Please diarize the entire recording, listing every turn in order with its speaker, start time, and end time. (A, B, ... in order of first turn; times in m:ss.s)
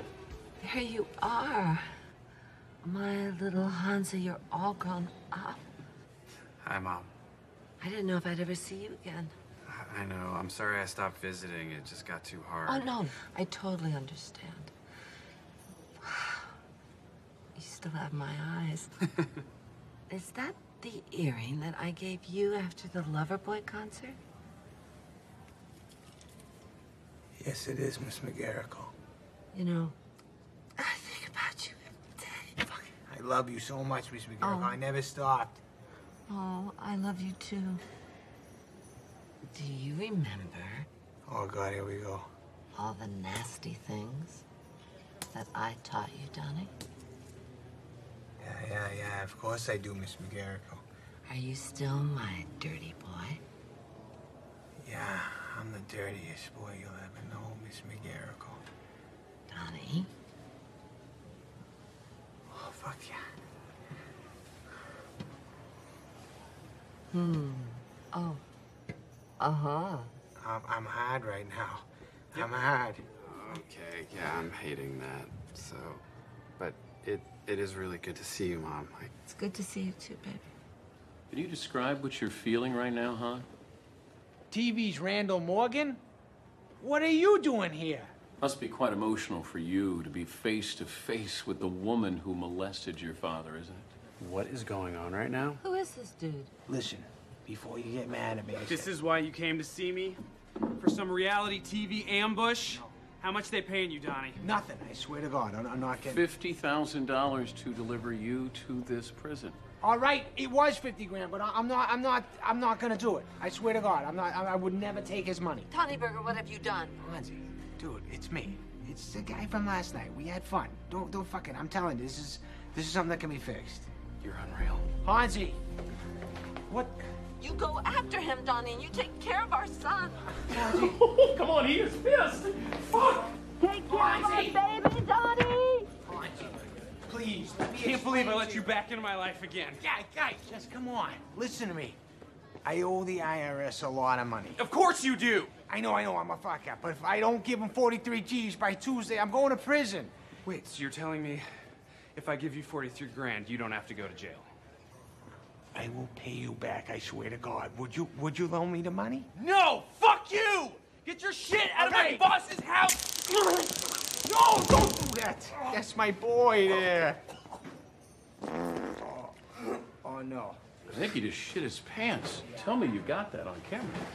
0:00.6-0:02.0 A
0:02.8-0:05.7 A
0:06.6-0:07.1 B
0:07.8-0:09.3 A
0:09.6-0:12.9 B
0:12.7-0:14.7 A
0:16.0-0:16.5 A
0:17.6-0:19.0 A
0:20.1-0:24.2 A
0:27.4-0:28.9 C
0:29.5-0:30.0 A
0:30.8-0:32.6 A
0:32.9-0:35.6 C
0:34.4-0:34.8 A
0:36.3-0:37.8 A
0:39.5-0:40.9 A
0:41.3-0:42.3 C
0:42.7-0:44.4 A
0:45.3-0:46.7 A
0:48.4-0:50.8 C
0:51.3-0:53.4 A
0:54.8-0:58.6 C
0:59.5-1:00.1 A
1:02.5-1:03.3 C
1:07.1-1:08.4 A
1:09.4-1:10.1 A
1:10.4-1:13.0 C
1:13.2-1:16.0 B
1:16.6-1:19.1 B
1:19.3-1:20.5 A
1:21.3-1:23.5 D
1:24.5-1:26.0 C
1:26.8-1:28.1 C
1:28.4-1:33.9 D
1:34.2-1:35.6 E
1:35.6-1:36.5 A
1:36.7-1:38.9 C
1:38.7-1:40.2 E
1:40.8-1:44.4 E
1:44.4-1:46.2 C
1:46.0-1:49.6 D
1:49.8-1:55.7 C
1:55.7-1:57.0 A
1:57.0-2:03.9 C
2:04.2-2:04.9 E
2:05.0-2:05.6 C
2:06.7-2:07.0 C
2:07.4-2:10.2 A
2:10.4-2:11.0 C
2:10.5-2:13.3 D
2:13.6-2:15.9 A
2:13.9-2:14.6 C
2:16.1-2:18.7 C
2:17.8-2:19.8 E
2:19.8-2:22.0 C
2:22.6-2:24.6 C
2:24.6-2:25.6 E
2:25.7-2:30.1 C
2:30.4-2:31.5 E
2:32.2-2:34.5 E
2:35.7-2:39.3 C
2:39.4-2:43.6 E
2:41.7-2:42.3 C
2:44.1-2:47.2 C
2:49.0-2:49.3 C
2:50.0-2:50.6 C
2:50.9-2:54.0 D